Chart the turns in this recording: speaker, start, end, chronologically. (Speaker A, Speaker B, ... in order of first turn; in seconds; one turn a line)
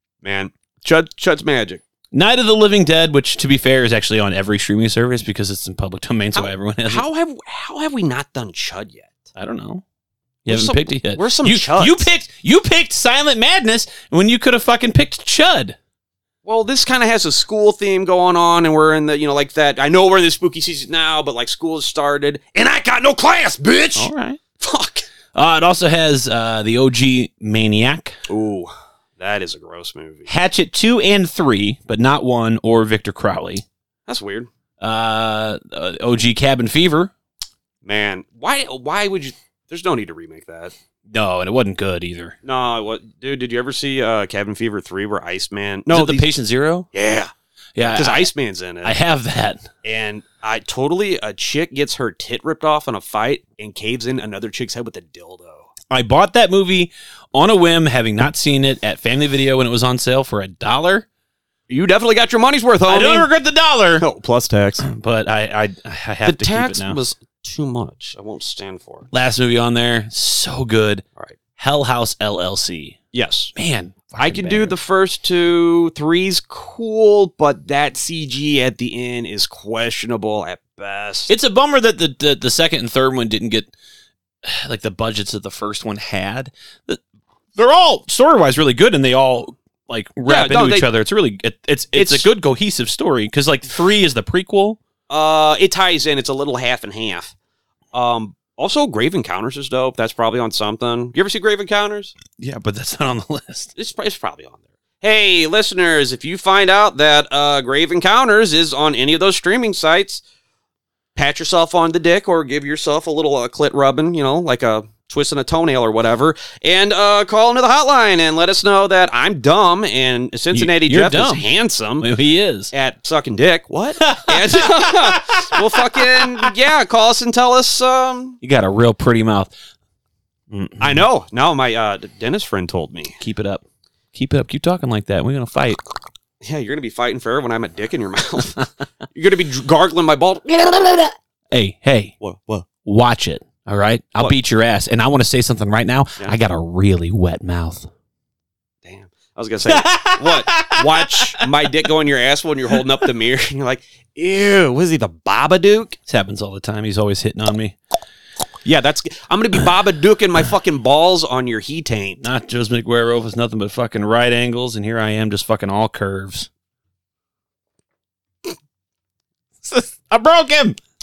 Speaker A: 0.2-1.8
Speaker B: 2.1-7.0
Speaker A: 6.3-9.1
Speaker B: 9.3-9.8
Speaker A: 10.4-12.1
Speaker B: 10.4-15.8
Speaker A: 16.4-25.1
Speaker B: 23.9-24.4
Speaker B: 25.3-28.2
Speaker A: 28.3-30.3
Speaker B: 30.3-33.6
Speaker A: 34.1-34.5
Speaker B: 34.8-37.1
Speaker A: 37.8-40.7
Speaker B: 41.1-42.4
Speaker A: 42.4-46.3
Speaker B: 45.9-46.9
Speaker A: 46.9-49.0
Speaker B: 47.8-48.3
Speaker B: 48.8-49.7
Speaker A: 49.8-55.7
Speaker B: 55.9-61.0
Speaker A: 61.7-63.3
Speaker B: 62.9-64.0
Speaker A: 64.0-64.8
Speaker B: 64.8-67.0
Speaker A: 66.2-69.1
Speaker B: 69.1-71.0
Speaker B: 71.6-73.0
Speaker A: 73.1-73.5
Speaker B: 73.5-74.8
Speaker A: 74.2-81.3
Speaker B: 81.3-83.7
Speaker B: 84.4-87.0
Speaker B: 87.5-94.8
Speaker A: 90.3-90.9
Speaker A: 91.9-92.3
Speaker A: 95.1-97.3
Speaker A: 97.9-102.1
Speaker B: 102.4-103.7
Speaker A: 103.8-110.2
Speaker A: 111.1-122.1
Speaker B: 120.5-121.5
Speaker B: 122.0-122.7
Speaker A: 122.7-128.4
Speaker B: 124.0-126.5
Speaker B: 128.4-129.5
Speaker B: 130.5-131.0
Speaker A: 130.8-133.2
Speaker B: 133.2-133.6
Speaker B: 134.1-135.8
Speaker A: 136.4-141.1
Speaker B: 141.5-142.1
Speaker A: 142.2-142.7
Speaker B: 142.8-147.9
Speaker A: 148.8-156.0
Speaker B: 149.6-151.5
Speaker B: 156.1-157.8
Speaker A: 158.6-162.2
Speaker B: 162.2-166.5
Speaker B: 169.6-170.8